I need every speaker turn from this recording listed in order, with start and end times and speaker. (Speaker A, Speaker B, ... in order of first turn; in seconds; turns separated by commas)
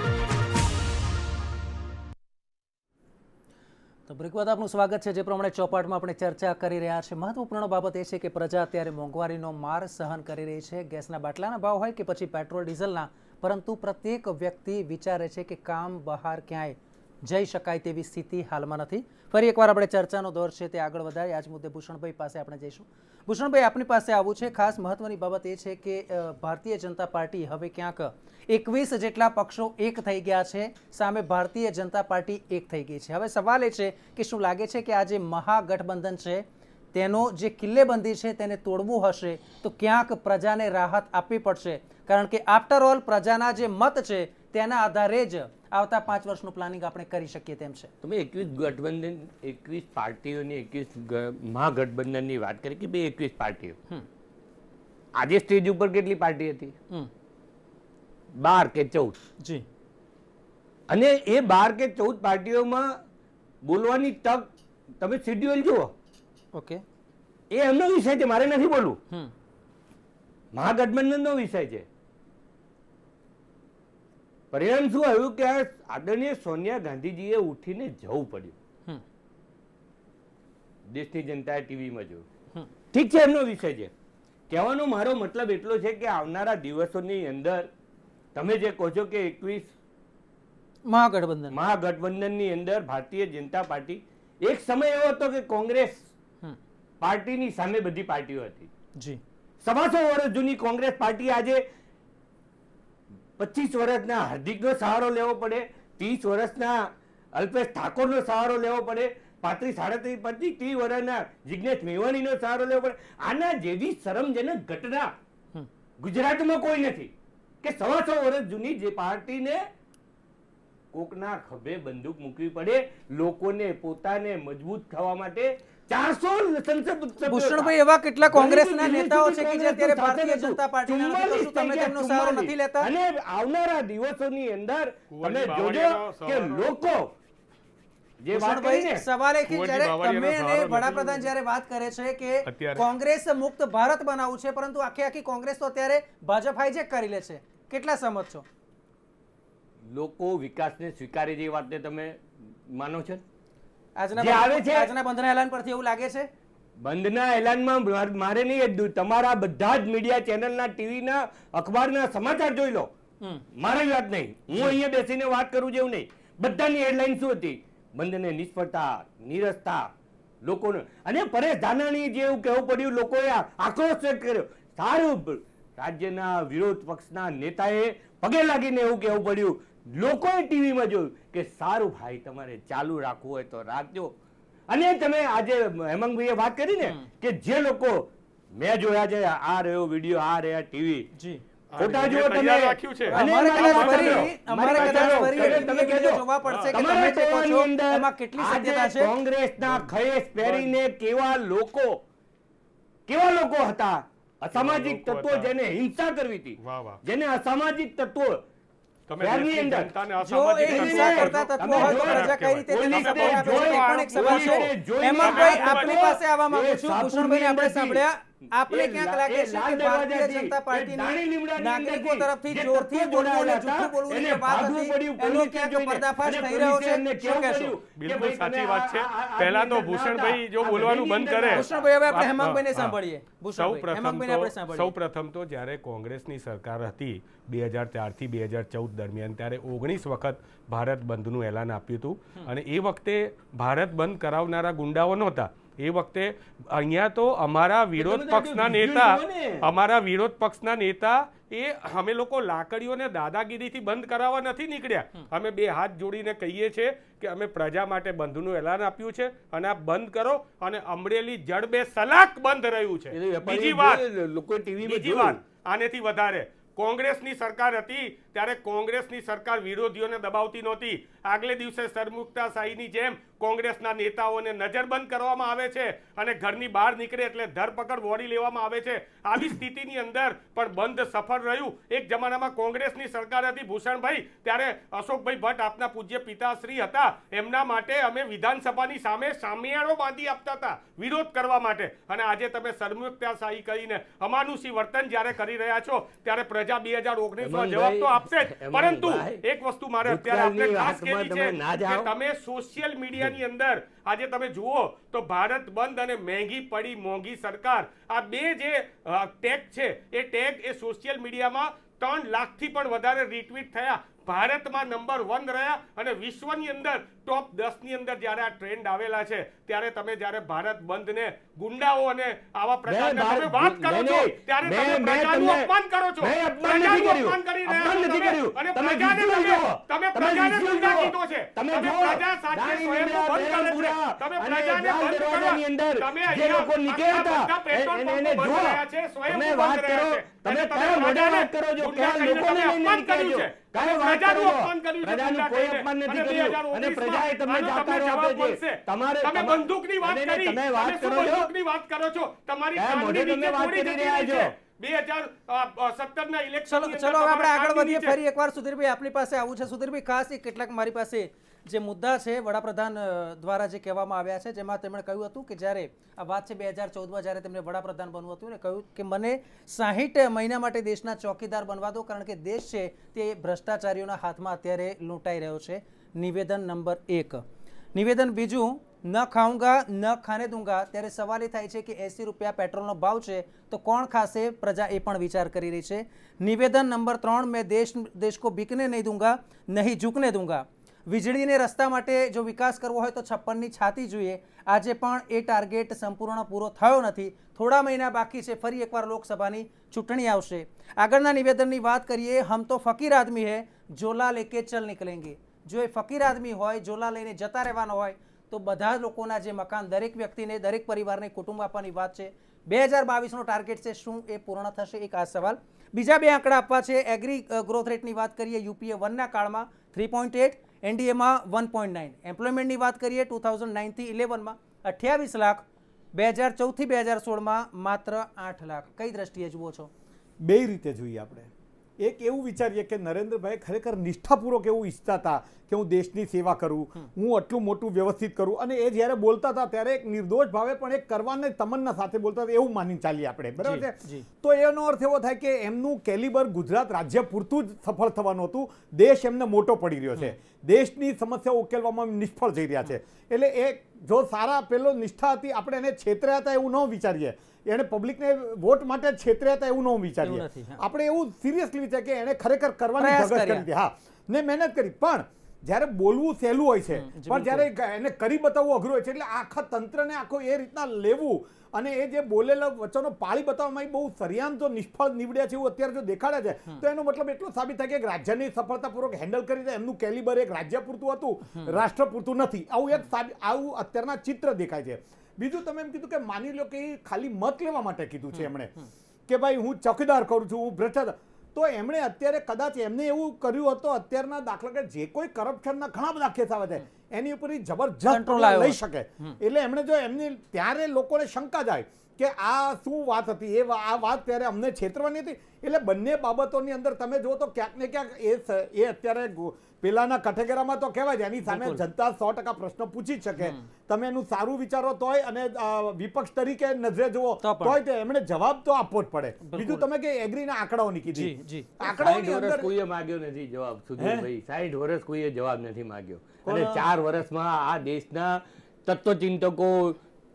Speaker A: 4.1-47.9, Speaker B: 48.0-53.8, Speaker B: 55.2-56.7, Speaker B: 58.4-59.2, Speaker B: 60.9-63.0, Speaker B: 63.6-64.5, Speaker B: 65.0-65.9, Speaker A: 66.5-66.8, Speaker B: 67.5-69.0, Speaker B: 70.5-71.8, Speaker B: 74.5-78.5, Speaker B: 80.9-82.2, Speaker B: 82.9-83.9, Speaker B: 84.5-87.7, Speaker B: 88.3-89.7, Speaker A: 90.9-91.5, Speaker B: 91.5-96.0, Speaker B: 97.0-98.7, Speaker B: 99.6-101.6, Speaker B: 103.4-115.1, Speaker B: 116.0-117.1, Speaker B: 117.6-119.6, Speaker B: 120.9-127.7, Speaker A: 127.2-132.9, Speaker B: 128.2-137.1, Speaker C: 135.1-136.7, Speaker B: 138.2-139.0, Speaker A: 138.3-148.4, Speaker C: 139.5-141.3, Speaker C: 142.4-142.8, Speaker B: 149.9-153.2, Speaker A: 154.0-156.3, Speaker B: 154.2-154.9, Speaker B: 156.8-162.9, Speaker B: 163.5-169.9, Speaker B: 170.4-184.1, Speaker B: 184.7-191.1, Speaker A: 191.2-191.4, Speaker C: 191.7-195.7, Speaker B: 191.8-202.0, Speaker A: 193.1-199.1, Speaker C: 196.4-196.7, Speaker C: 199.6-200.7, Speaker B: 203.1-208.4, Speaker C: 204.5-205.5, Speaker C: 206.6-207.0, Speaker C: 209.1-216.2, Speaker B: 209.2-209.9, Speaker A: 210.2-227.8, Speaker B: 210.7-218.0, Speaker B: 218.7-231.9, Speaker C: 227.9-232.9, Speaker A: 231.5-234.9, Speaker C: 233.6-264.0, Speaker B: 248.0-249.7, Speaker B: 263.1-265.4, Speaker C: 264.8-358.2, Speaker B: 297.4-299.4, Speaker B: 300.0-302.1, Speaker B: 322.9-351.5, Speaker B: 352.8-354.5, Speaker A: 356.7-377.4, Speaker A: 377.9-429.9, Speaker D: 430.4-488.7, Speaker A: 443.6-444.2, Speaker A: 460.2-460.8, Speaker A: 463.0-463.6, Speaker A: 466.9-467.7, Speaker D: 489.3-522.7, Speaker A: 498.1-499.4, Speaker A: 511.4-511.8, Speaker A: 513.4-513.7, Speaker A: 517.4-517.8, Speaker A: 519.4-519.9, Speaker A: 521.1-521.7, Speaker B: 521.8-530.0, Speaker D: 524.0-524.3, Speaker D: 526.4-526.8